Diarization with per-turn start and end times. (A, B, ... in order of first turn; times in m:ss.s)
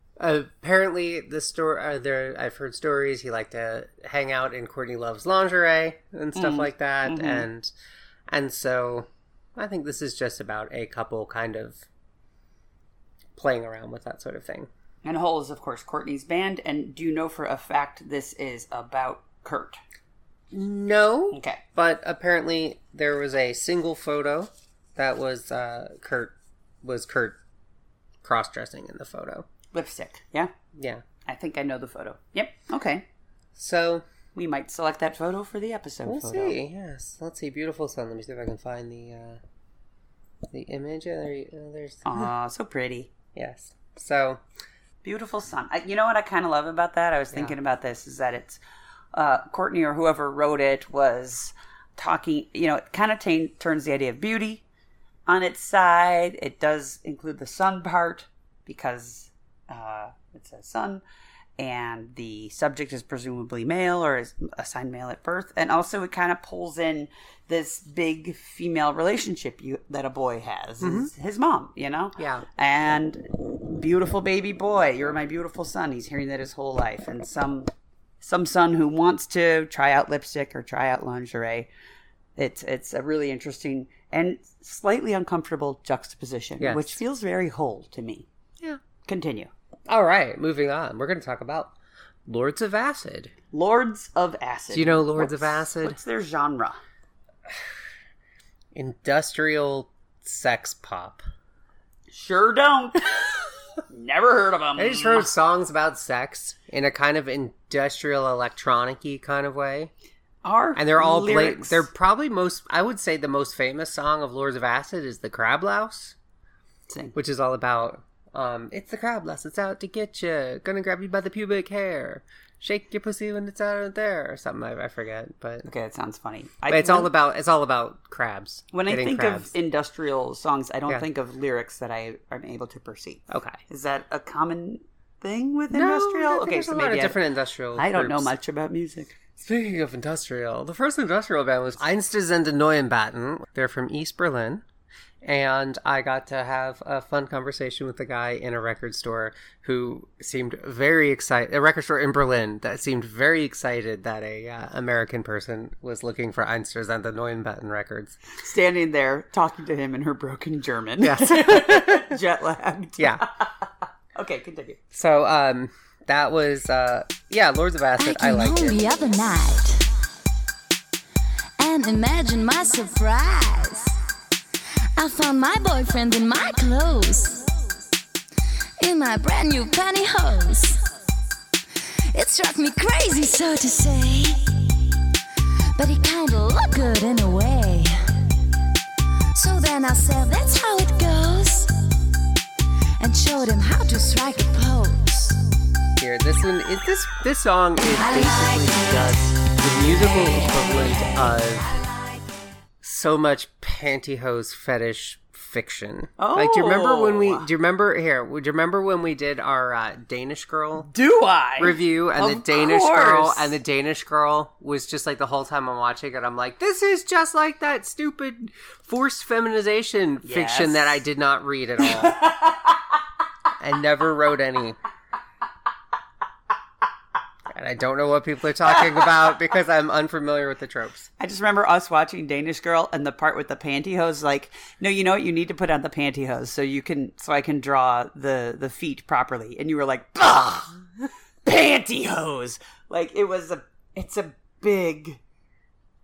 0:00.2-0:07.7 A
0:06.3-0:07.4 B
0:08.3-0:11.8 A
0:13.4-0:14.7 A
0:15.0-0:19.8 B
0:20.5-0:27.4 A
0:21.3-0:21.6 B
0:28.2-0:29.5 A
0:29.7-0:30.5 B
0:30.8-0:31.0 A
0:31.2-0:33.0 B
0:33.6-0:34.0 A
0:34.3-0:36.6 B
0:36.0-0:39.4 A
0:40.5-0:42.3 A
0:42.0-0:43.1 B
0:43.3-0:44.4 A
0:45.0-0:48.6 B
0:49.1-0:54.6 B
0:55.3-1:01.0 B
1:01.6-1:17.7 B
1:10.8-1:11.1 A
1:12.2-1:12.5 A
1:18.2-1:21.7 B
1:22.4-1:28.3 B
1:26.6-1:27.0 A
1:29.0-1:29.5 B
1:29.9-1:31.7 A
1:32.2-1:33.3 A
1:33.5-1:36.8 B
1:34.7-1:36.0 A
1:38.7-1:41.2 A
1:42.1-1:43.3 B
1:43.9-1:45.3 B
1:44.8-1:49.9 A
1:50.4-1:51.9 B
1:50.8-1:56.1 A
1:56.9-1:57.1 B
1:57.1-2:05.7 A
2:05.6-2:07.1 B
2:06.7-2:09.5 A
2:08.7-2:17.2 B
2:13.3-2:13.6 A
2:15.7-2:18.3 A
2:17.7-2:19.2 B
2:19.4-2:24.6 A
2:25.2-2:38.2 A
2:38.4-2:44.8 B
2:41.0-2:42.2 A
2:43.0-2:43.2 A
2:44.9-2:48.8 A
2:48.0-2:49.9 C
2:51.6-2:54.0 C
2:55.0-2:57.4 C
2:58.8-3:00.8 C
3:02.1-3:04.5 C
3:05.8-3:08.1 C
3:09.3-3:11.8 C
3:13.0-3:15.4 C
3:16.0-3:21.7 A
3:18.0-3:19.1 C
3:20.2-3:20.6 C
3:22.8-3:30.9 A
3:26.2-3:27.5 B
3:30.8-3:33.6 B
3:31.6-3:42.2 A
3:40.2-3:41.0 B
3:41.9-3:42.7 B
3:43.6-3:44.8 A
3:47.5-3:51.1 A
3:51.2-4:00.8 B
4:01.4-4:05.2 B